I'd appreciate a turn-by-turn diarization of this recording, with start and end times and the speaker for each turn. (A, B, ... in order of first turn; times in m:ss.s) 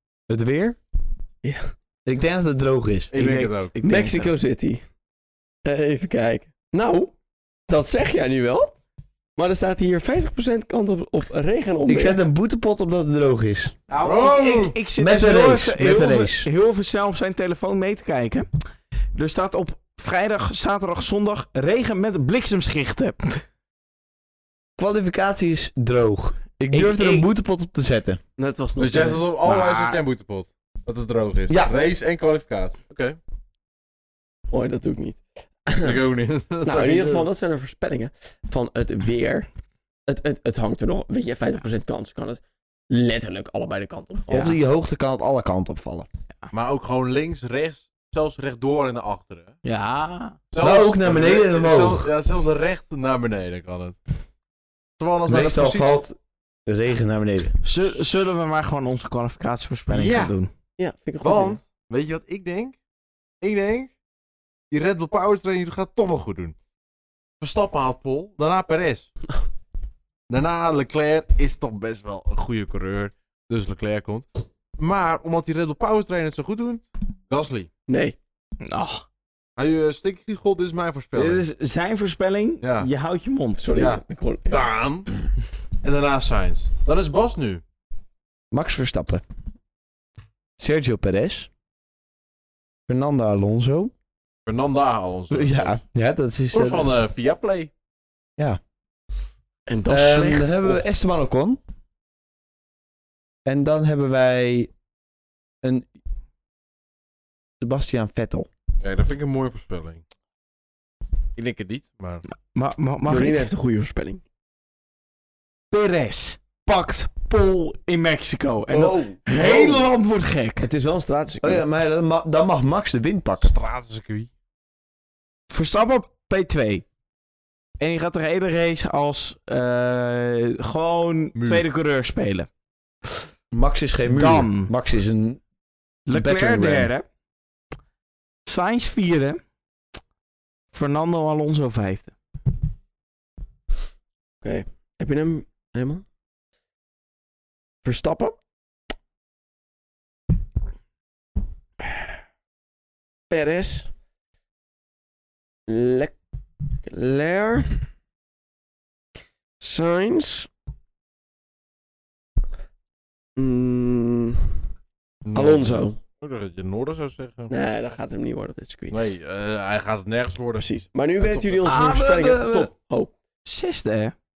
0:00.3-0:00.8 A
0:01.4-0:01.7 B
0:02.1-0:03.1 A
0:03.1-0:03.8 C
0:03.1-0:04.3 D
0:03.8-0:04.8 B
0:05.6-0:07.2 B
0:07.7-0:08.8 B
0:09.4-0:12.2 B
0:11.9-0:13.8 A
0:13.9-0:18.5 D
0:14.0-0:14.8 C
0:15.0-0:16.5 A
0:19.2-0:23.4 D
0:24.8-0:28.2 A
0:26.7-0:27.3 D
0:28.4-0:29.2 B
0:28.8-0:33.2 C
0:29.4-0:30.0 D
0:34.5-0:36.0 B
0:35.8-0:37.3 C
0:36.6-0:39.5 B
0:40.1-0:44.6 B
0:44.3-0:46.1 A
0:46.5-0:49.6 C
0:49.6-0:50.4 D
0:50.5-0:54.0 C
0:50.6-0:52.1 A
0:55.0-0:56.0 C
0:55.3-0:57.6 A
0:57.6-1:00.5 D
0:59.9-1:00.3 C
1:00.8-1:01.6 B
1:01.2-1:02.8 C
1:03.4-1:03.9 C
1:04.7-1:06.5 C
1:07.4-1:09.1 C
1:10.3-1:14.3 C
1:14.8-1:17.7 C
1:17.9-1:18.2 B
1:18.6-1:19.1 D
1:19.6-1:21.4 C
1:21.1-1:23.7 D
1:22.6-1:22.9 C
1:23.6-1:24.6 B
1:23.7-1:25.1 C
1:25.8-1:27.6 C
1:28.5-1:29.2 A
1:30.6-1:31.5 A
1:32.9-1:33.9 A
1:34.5-1:35.7 C
1:35.3-1:36.9 A
1:36.5-1:37.7 C
1:39.7-1:40.8 B
1:39.9-1:41.6 A
1:43.5-1:44.7 A
1:47.6-1:48.5 A
1:48.8-1:50.0 C
1:51.4-1:52.2 C
1:52.5-1:53.4 D
1:53.1-1:54.2 B
1:55.7-2:00.7 D
1:58.7-1:59.9 C
2:00.6-2:01.6 B
2:01.4-2:03.5 A
2:03.4-2:04.3 C
2:05.5-2:06.8 D
2:07.8-2:12.5 D
2:11.4-2:11.6 C
2:13.5-2:15.4 A
2:14.1-2:14.7 D
2:16.1-2:17.0 D
2:16.1-2:16.9 A
2:18.5-2:19.4 D
2:20.7-2:22.2 D
2:24.4-2:26.0 B
2:27.8-2:28.4 B
2:33.3-2:33.9 B
2:35.7-2:36.2 B
2:36.8-2:37.9 B
2:39.6-2:40.5 B
2:43.4-2:44.5 B
2:45.2-2:47.5 C
2:45.4-2:46.0 B
2:47.5-2:49.1 B
2:48.9-2:51.7 C
2:50.6-2:53.1 B
2:51.6-2:52.7 D
2:53.4-2:54.2 D